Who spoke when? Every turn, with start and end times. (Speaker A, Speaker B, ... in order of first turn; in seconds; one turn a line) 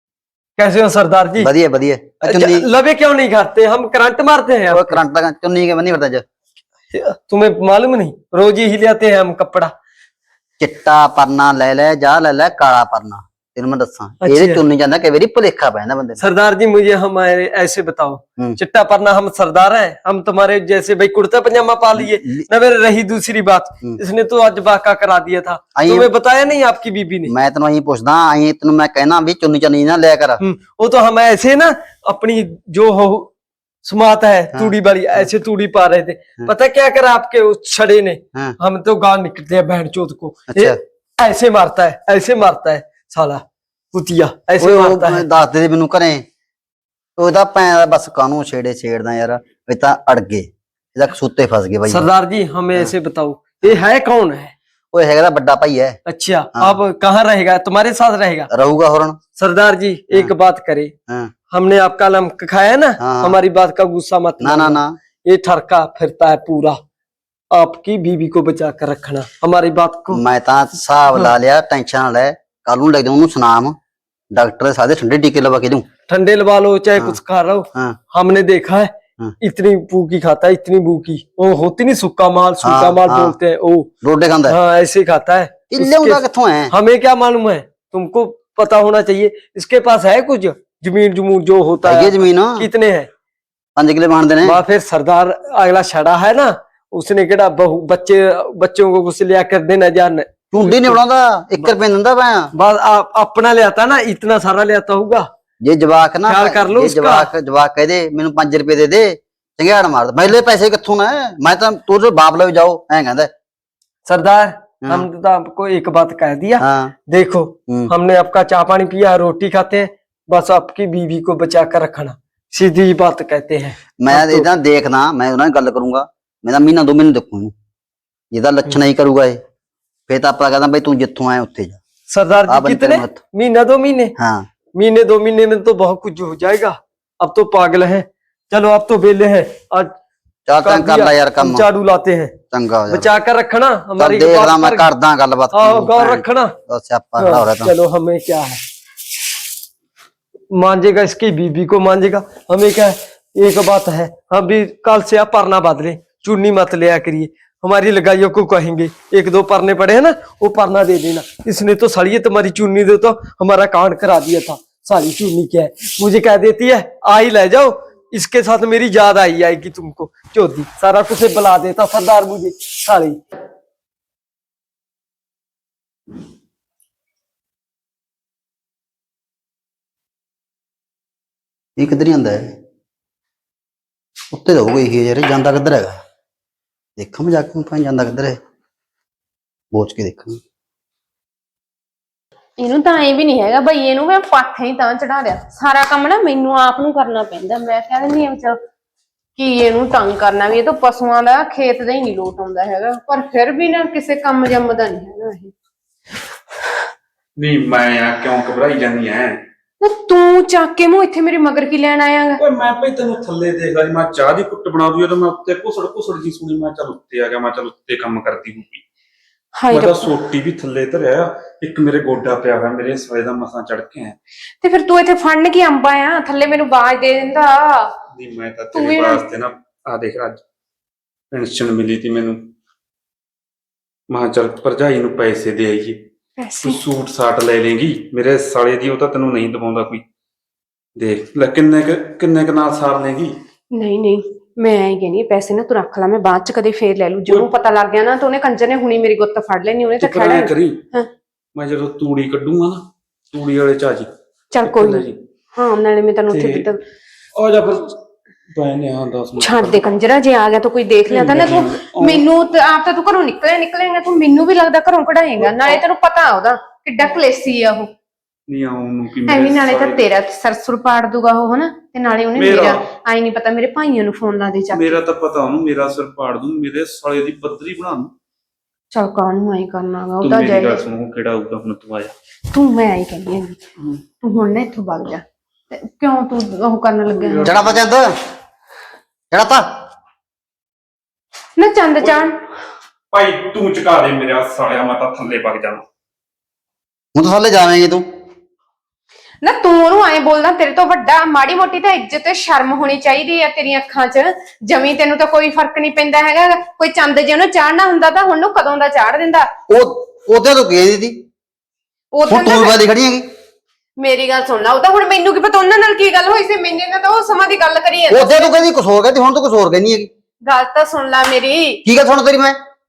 Speaker A: 0.6-1.5
Speaker B: 1.4-2.6
Speaker A: 2.2-5.0
Speaker B: 4.7-6.2
Speaker A: 6.9-9.7
Speaker B: 10.6-16.2
Speaker A: 14.2-14.6
Speaker A: 16.2-27.3
Speaker B: 22.2-22.4
Speaker B: 25.7-26.1
Speaker B: 27.3-30.4
Speaker A: 30.4-33.3
Speaker A: 33.8-45.2
Speaker B: 40.5-40.8
Speaker B: 44.6-46.2
Speaker B: 47.2-52.1
Speaker A: 51.9-54.5
Speaker B: 54.9-56.0
Speaker A: 56.0-58.5
Speaker B: 58.5-59.2
Speaker A: 59.4-60.9
Speaker A: 61.5-66.8
Speaker B: 63.0-63.4
Speaker B: 64.4-65.0
Speaker A: 67.5-70.2
Speaker B: 70.1-73.8
Speaker B: 74.3-75.9
Speaker A: 76.1-83.9
Speaker B: 82.6-83.3
Speaker B: 84.0-84.5
Speaker A: 84.5-93.1
Speaker B: 85.7-86.7
Speaker B: 91.8-92.7
Speaker B: 93.8-94.6
Speaker A: 94.4-101.0
Speaker B: 100.5-102.5
Speaker A: 102.5-105.3
Speaker B: 105.6-113.3
Speaker A: 106.3-107.3
Speaker A: 114.0-124.5
Speaker B: 116.6-116.9
Speaker B: 124.0-127.5
Speaker B: 128.3-129.4
Speaker B: 130.1-131.8
Speaker A: 132.1-134.1
Speaker B: 132.5-133.2
Speaker B: 134.2-134.5
Speaker A: 134.7-139.9
Speaker B: 140.5-141.7
Speaker A: 140.6-142.3
Speaker B: 142.5-143.1
Speaker A: 142.9-144.9
Speaker B: 144.0-147.7
Speaker A: 145.5-146.5
Speaker A: 147.2-148.6
Speaker A: 150.5-173.2
Speaker B: 181.8-182.6
Speaker B: 184.3-186.0
Speaker B: 187.0-188.4
Speaker B: 189.7-190.4
Speaker C: 192.6-198.6
Speaker C: 199.4-205.5
Speaker D: 207.4-209.4
Speaker C: 209.8-212.4
Speaker D: 212.4-218.8
Speaker C: 219.6-220.1
Speaker D: 219.7-224.2
Speaker C: 224.6-227.9
Speaker D: 228.1-230.4
Speaker C: 228.7-229.2
Speaker D: 231.3-232.4
Speaker D: 234.1-236.0
Speaker C: 236.4-236.8
Speaker D: 236.6-240.0
Speaker D: 241.0-243.4
Speaker C: 243.7-251.1
Speaker D: 250.0-250.8
Speaker D: 251.5-254.1
Speaker C: 254.5-256.8
Speaker D: 254.6-255.2
Speaker D: 256.3-256.7
Speaker D: 257.4-258.0
Speaker D: 258.5-259.8
Speaker C: 259.4-267.9
Speaker D: 261.1-262.2
Speaker D: 265.4-265.8
Speaker D: 268.5-270.0
Speaker C: 269.3-275.0
Speaker D: 272.4-272.8
Speaker D: 274.7-278.1
Speaker C: 278.9-280.8
Speaker D: 280.2-282.1
Speaker C: 282.5-283.6
Speaker C: 284.2-287.5
Speaker D: 287.1-287.8
Speaker B: 287.4-288.1
Speaker B: 289.3-289.7
Speaker C: 291.6-292.4
Speaker D: 292.0-292.3
Speaker D: 293.1-295.8
Speaker B: 297.1-298.1
Speaker C: 299.4-309.5
Speaker B: 309.7-311.2
Speaker C: 312.1-312.8
Speaker B: 312.3-313.3
Speaker C: 314.0-318.5
Speaker B: 318.1-320.1
Speaker C: 320.4-321.8
Speaker B: 321.8-322.6